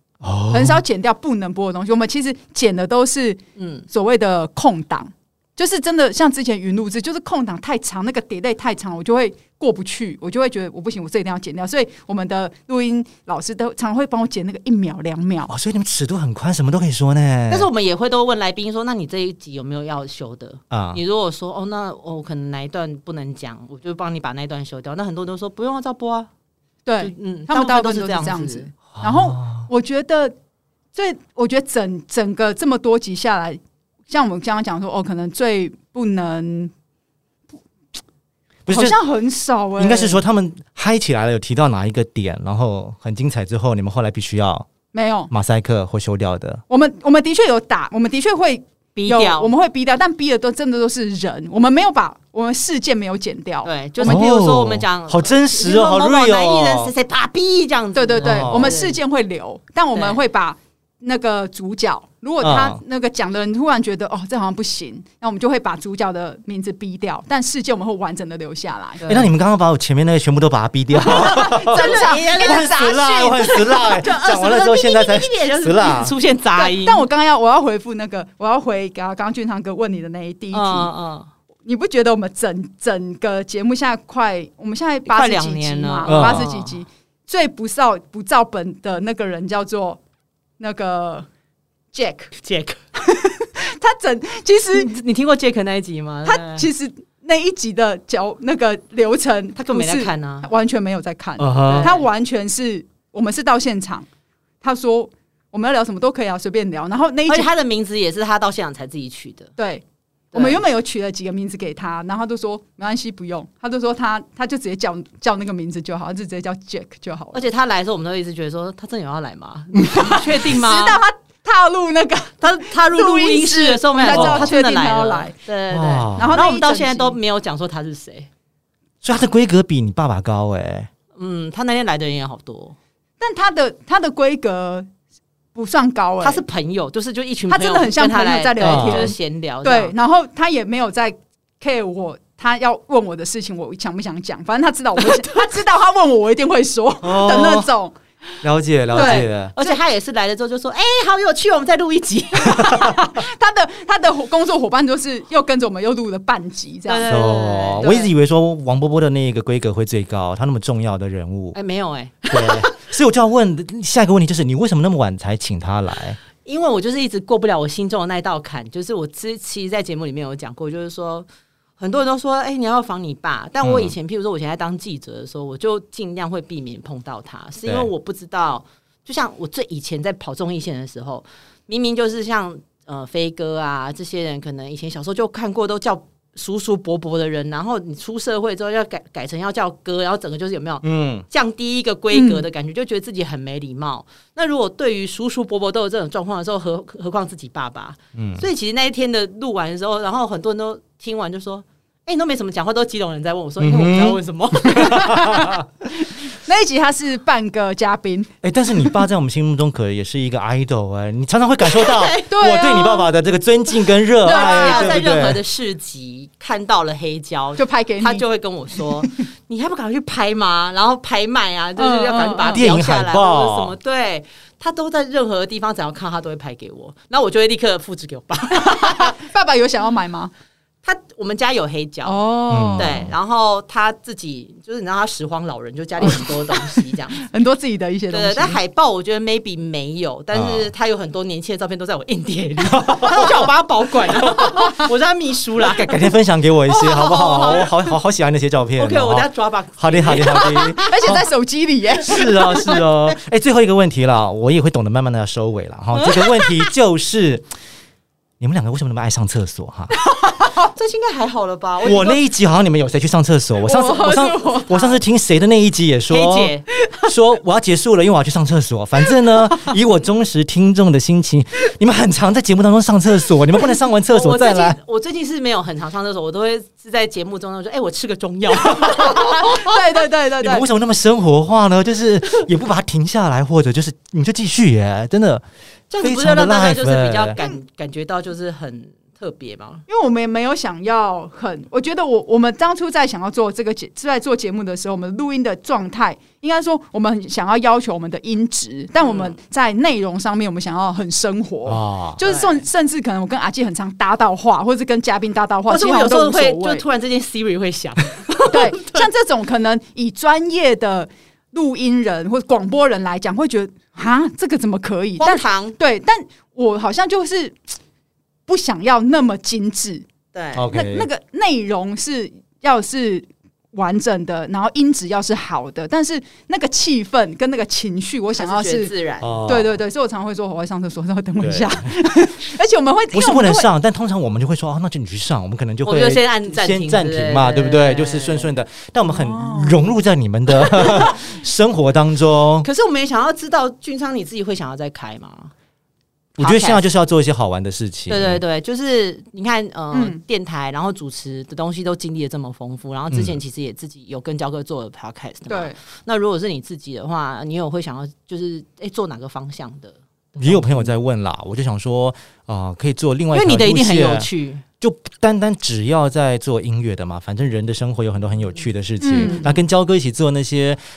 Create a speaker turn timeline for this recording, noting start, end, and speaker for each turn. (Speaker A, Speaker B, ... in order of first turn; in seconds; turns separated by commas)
Speaker A: 0.2-0.8, Speaker B: 0.5-15.5, Speaker C: 3.6-3.9, Speaker A: 15.5-17.7, Speaker C: 17.5-26.3, Speaker A: 20.7-21.0, Speaker B: 26.9-30.3, Speaker C: 27.0-28.7, Speaker A: 28.9-29.7, Speaker B: 30.9-36.7, Speaker A: 38.7-39.0, Speaker B: 38.7-40.2, Speaker A: 39.8-44.7, Speaker B: 44.9-45.3, Speaker A: 45.3-46.6, Speaker B: 46.7-54.2, Speaker C: 49.0-49.5, Speaker C: 53.6-59.0, Speaker A: 54.0-56.9, Speaker B: 57.9-69.1, Speaker A: 58.2-58.8, Speaker C: 59.9-60.2, Speaker A: 62.4-62.8, Speaker C: 69.0-69.3, Speaker A: 69.1-76.2, Speaker B: 71.0-73.6, Speaker C: 71.1-72.8, Speaker C: 73.4-77.1, Speaker B: 76.6-80.9, Speaker C: 80.5-81.3, Speaker B: 81.7-90.0, Speaker C: 85.1-86.8, Speaker A: 86.1-86.5, Speaker B: 90.6-91.3, Speaker B: 91.9-92.3, Speaker C: 92.4-92.8, Speaker B: 93.0-94.9, Speaker C: 94.7-96.7, Speaker B: 96.2-104.1, Speaker C: 99.6-100.5, Speaker A: 101.4-101.9, Speaker C: 101.6-102.0, Speaker B: 104.6-107.5, Speaker C: 107.3-109.5, Speaker B: 109.6-117.5, Speaker C: 110.3-110.6, Speaker C: 117.3-121.0, Speaker B: 119.8-125.4, Speaker C: 122.4-128.3, Speaker A: 124.0-124.5, Speaker A: 125.7-126.4, Speaker B: 126.2-127.2, Speaker A: 129.0-130.9, Speaker C: 131.2-132.8, Speaker B: 133.2-134.9, Speaker B: 135.6-136.4, Speaker C: 136.2-139.9, Speaker B: 137.5-147.9, Speaker A: 138.6-139.1, Speaker C: 145.0-145.4, Speaker A: 147.0-147.7, Speaker A: 148.4-149.5, Speaker B: 148.9-149.8, Speaker C: 148.9-153.0, Speaker B: 152.5-157.2, Speaker A: 152.6-153.0, Speaker C: 156.9-158.1, Speaker A: 157.0-161.6, Speaker C: 161.5-162.7, Speaker A: 162.3-166.2, Speaker C: 166.4-171.3, Speaker C: 171.8-205.2, Speaker A: 173.6-173.9, Speaker A: 177.7-177.9, Speaker A: 190.8-191.3, Speaker B: 192.1-192.5, Speaker A: 198.2-198.5, Speaker A: 203.6-205.7, Speaker B: 204.7-209.0, Speaker A: 208.4-215.4, Speaker C: 211.7-212.9, Speaker B: 212.3-213.1, Speaker B: 214.2-215.0, Speaker C: 214.2-229.2, Speaker B: 217.6-219.2, Speaker B: 221.8-222.7, Speaker A: 222.5-223.8, Speaker B: 228.5-230.3, Speaker C: 230.8-232.3, Speaker B: 232.1-233.0, Speaker A: 232.5-233.1, Speaker C: 232.8-237.2, Speaker B: 236.0-238.6, Speaker C: 238.1-246.1, Speaker A: 240.3-240.7, Speaker A: 242.7-243.5, Speaker A: 244.2-244.6, Speaker A: 245.6-251.2, Speaker C: 246.7-247.8, Speaker C: 248.8-251.0, Speaker B: 250.8-252.8, Speaker A: 252.0-257.5, Speaker C: 252.6-253.2, Speaker C: 256.0-256.7, Speaker A: 258.4-259.9, Speaker B: 260.0-260.7, Speaker C: 260.6-262.2, Speaker A: 261.8-274.8, Speaker B: 263.6-265.0, Speaker C: 266.1-266.6, Speaker C: 274.1-279.8, Speaker B: 278.7-280.6, Speaker A: 280.4-285.4, Speaker C: 285.9-289.8, Speaker A: 286.0-287.4, Speaker B: 289.9-306.8, Speaker C: 299.0-299.4, Speaker A: 301.7-302.2, Speaker C: 302.2-302.6, Speaker C: 305.7-309.1, Speaker B: 308.4-317.6, Speaker C: 315.2-315.8, Speaker B: 318.5-320.1, Speaker C: 320.3-320.7, Speaker A: 320.6-321.1, Speaker B: 320.6-328.9, Speaker C: 328.4-329.3, Speaker A: 329.2-329.7, Speaker B: 329.5-333.7, Speaker A: 331.4-331.8, Speaker A: 333.1-342.7, Speaker C: 335.9-338.5, Speaker B: 339.1-339.9, Speaker C: 340.6-341.2, Speaker C: 342.6-345.5, Speaker A: 346.4-348.4, Speaker C: 346.4-346.8, Speaker C: 348.1-360.9, Speaker B: 349.9-350.2, Speaker A: 353.1-353.4, Speaker B: 355.5-355.8, Speaker A: 360.4-364.3, Speaker C: 363.3-364.6, Speaker A: 364.8-370.8, Speaker B: 369.0-369.5, Speaker C: 369.1-369.6